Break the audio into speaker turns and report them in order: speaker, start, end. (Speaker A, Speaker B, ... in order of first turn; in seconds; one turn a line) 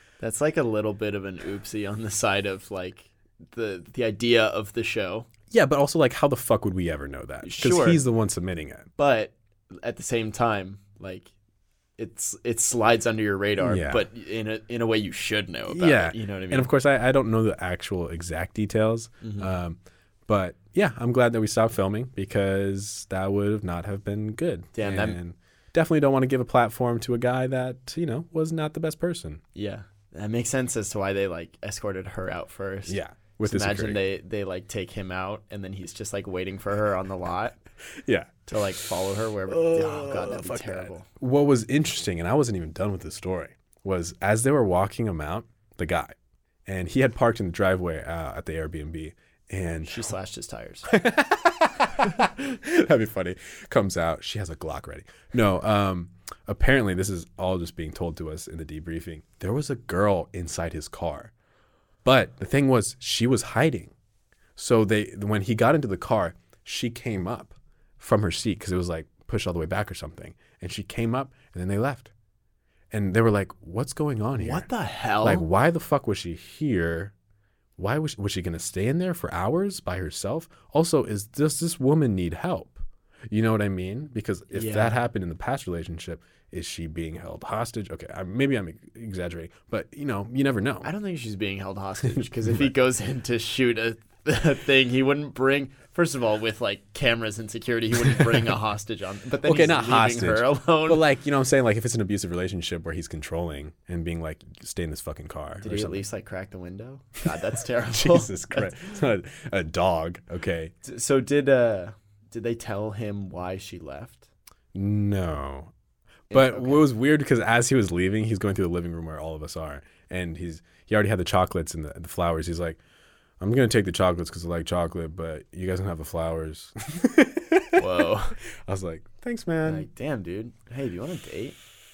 Speaker A: 0.2-5.3
Speaker B: 5.5-8.9
Speaker A: 7.4-8.0
Speaker A: 9.0-11.3
Speaker A: 12.0-16.7
Speaker B: 13.6-14.1
Speaker B: 15.7-29.4
Speaker A: 19.2-19.5
Speaker A: 24.7-25.2
Speaker A: 29.5-37.6
Speaker B: 32.9-34.0
Speaker B: 38.0-38.5
Speaker A: 38.5-41.1
Speaker B: 39.5-46.1
Speaker B: 46.6-50.1
Speaker A: 49.8-50.9
Speaker B: 50.9-61.3
Speaker B: 62.0-63.9
Speaker B: 64.5-72.1
Speaker B: 72.9-74.7
Speaker A: 74.4-75.4
Speaker B: 75.2-77.1
Speaker B: 77.8-90.9
Speaker A: 84.5-85.0
Speaker A: 90.8-101.0
Speaker B: 92.1-92.7
Speaker B: 99.4-106.0
Speaker A: 105.6-108.8
Speaker B: 107.9-110.7
Speaker A: 110.8-114.3
Speaker B: 114.7-115.7
Speaker A: 116.3-116.8
Speaker B: 116.3-122.8
Speaker B: 123.4-128.1
Speaker A: 127.8-128.4
Speaker B: 128.6-129.9
Speaker A: 129.6-131.6